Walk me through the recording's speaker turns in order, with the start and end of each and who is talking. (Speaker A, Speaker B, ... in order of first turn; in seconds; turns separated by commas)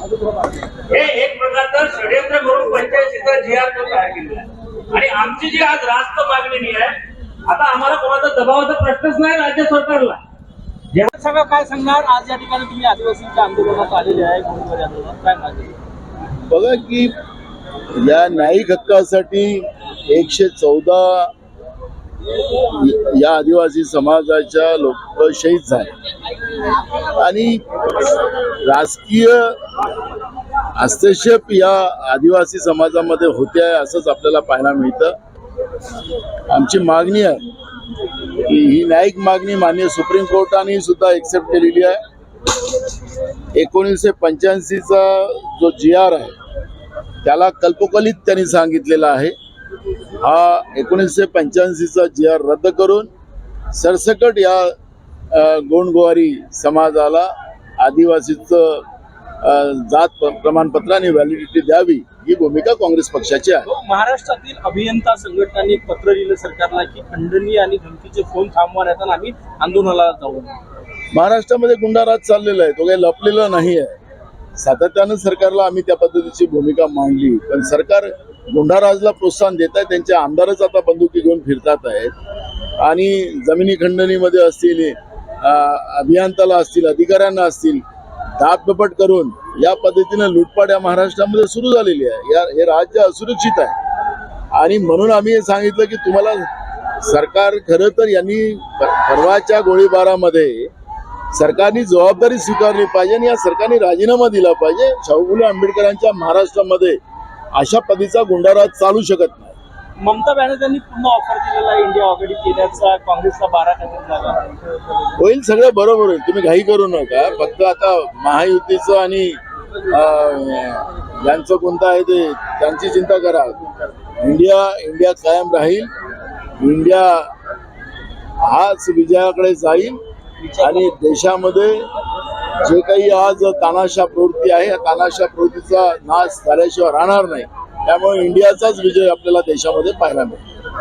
Speaker A: 0.9-10.2, Speaker B: 11.1-15.8, Speaker C: 16.5-17.1, Speaker C: 18.0-21.3, Speaker C: 22.7-25.9, Speaker C: 27.2-27.6, Speaker C: 28.6-29.6, Speaker C: 30.8-35.1, Speaker C: 36.5-37.4, Speaker C: 38.4-42.0, Speaker C: 43.5-46.3, Speaker C: 47.2-49.3, Speaker C: 50.2-53.1, Speaker C: 53.7-54.7, Speaker C: 55.3-57.3, Speaker C: 57.8-58.8, Speaker C: 59.4-63.7, Speaker B: 63.6-70.6, Speaker C: 71.1-73.9, Speaker C: 74.6-82.1, Speaker C: 82.8-87.8, Speaker C: 88.4-93.7, Speaker C: 94.5-96.5, Speaker C: 97.0-100.7, Speaker C: 101.3-107.0, Speaker C: 107.5-109.5, Speaker B: 110.0-114.4, Speaker C: 115.2-123.6, Speaker C: 124.2-125.9, Speaker C: 126.6-127.3, Speaker C: 128.4-130.0, Speaker B: 130.4-130.8, Speaker C: 130.6-131.9, Speaker C: 132.6-140.4